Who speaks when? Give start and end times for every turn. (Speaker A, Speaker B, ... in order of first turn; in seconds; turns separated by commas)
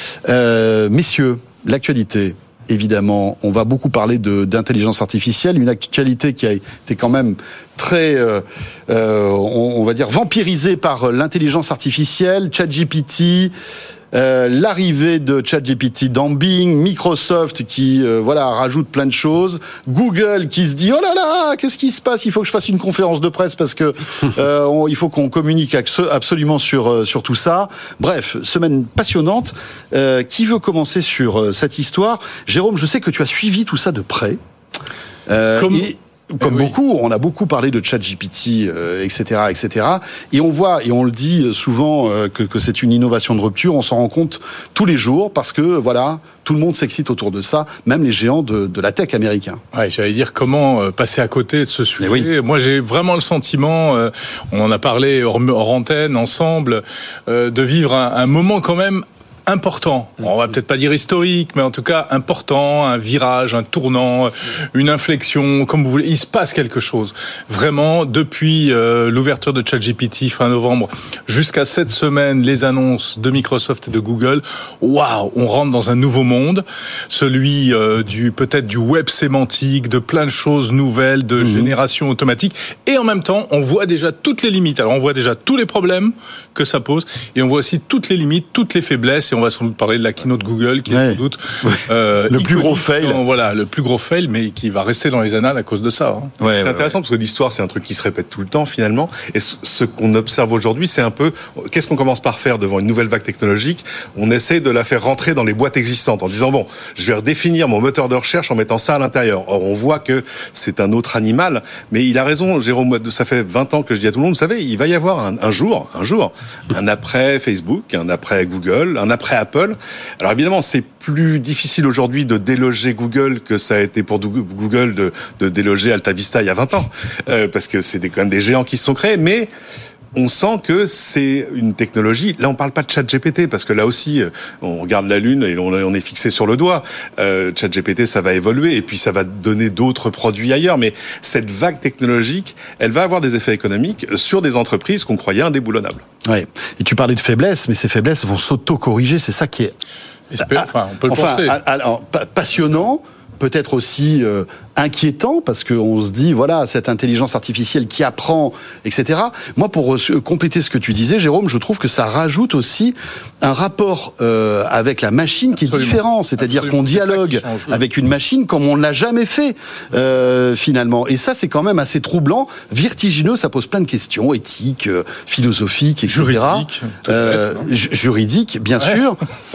Speaker A: 0.2-13.5, Speaker A: 14.1-34.4, Speaker A: 35.3-49.6, Speaker B: 35.6-36.7, Speaker B: 49.7-96.3, Speaker A: 52.0-52.3, Speaker A: 81.4-81.7, Speaker A: 90.9-93.2, Speaker A: 96.4-96.9, Speaker C: 96.6-129.5, Speaker C: 130.2-146.0, Speaker A: 146.2-149.7, Speaker B: 150.3-151.6, Speaker A: 150.4-179.2, Speaker B: 165.6-167.8, Speaker B: 176.1-177.6